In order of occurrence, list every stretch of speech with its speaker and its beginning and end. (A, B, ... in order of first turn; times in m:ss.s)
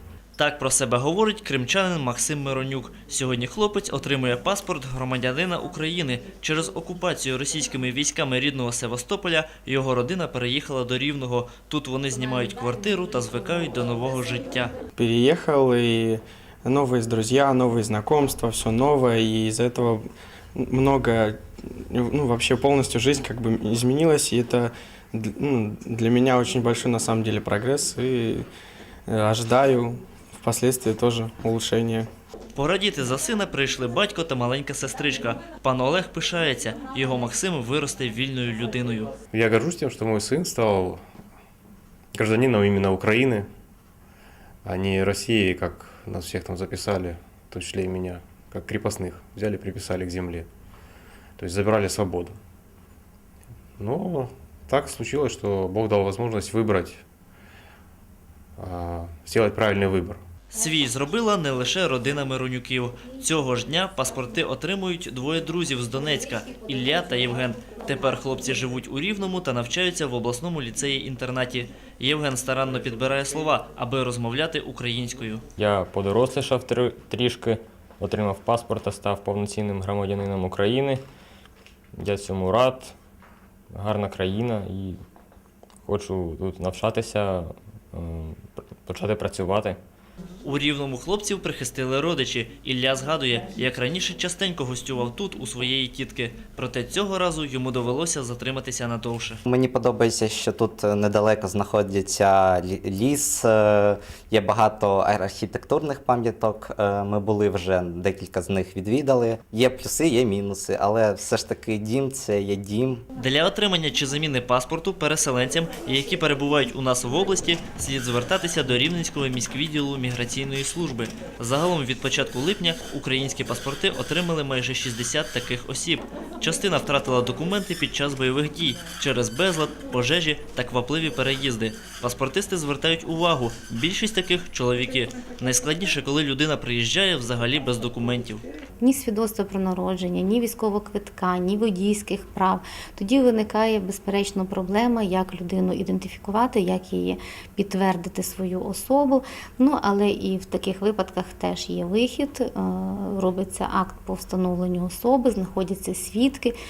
0:00.4-0:14.7 A
0:15.0-0:20.0 B
0:20.6-0:28.5 B
0:29.1-0:32.1 B
0:32.6-0:39.1 A
0:39.3-0:41.0 C
0:42.1-0:43.5 C
0:44.6-0:50.5 C
0:51.4-0:52.4 C
0:53.8-0:57.0 C
0:58.6-1:00.2 C
1:00.5-1:15.4 A
1:15.6-1:21.0 D
1:22.0-1:22.9 D
1:23.7-1:25.0 D
1:25.9-1:29.8 D
1:30.4-1:39.4 A
1:39.5-1:53.0 E
1:53.2-2:18.4 A
2:18.8-2:36.6 F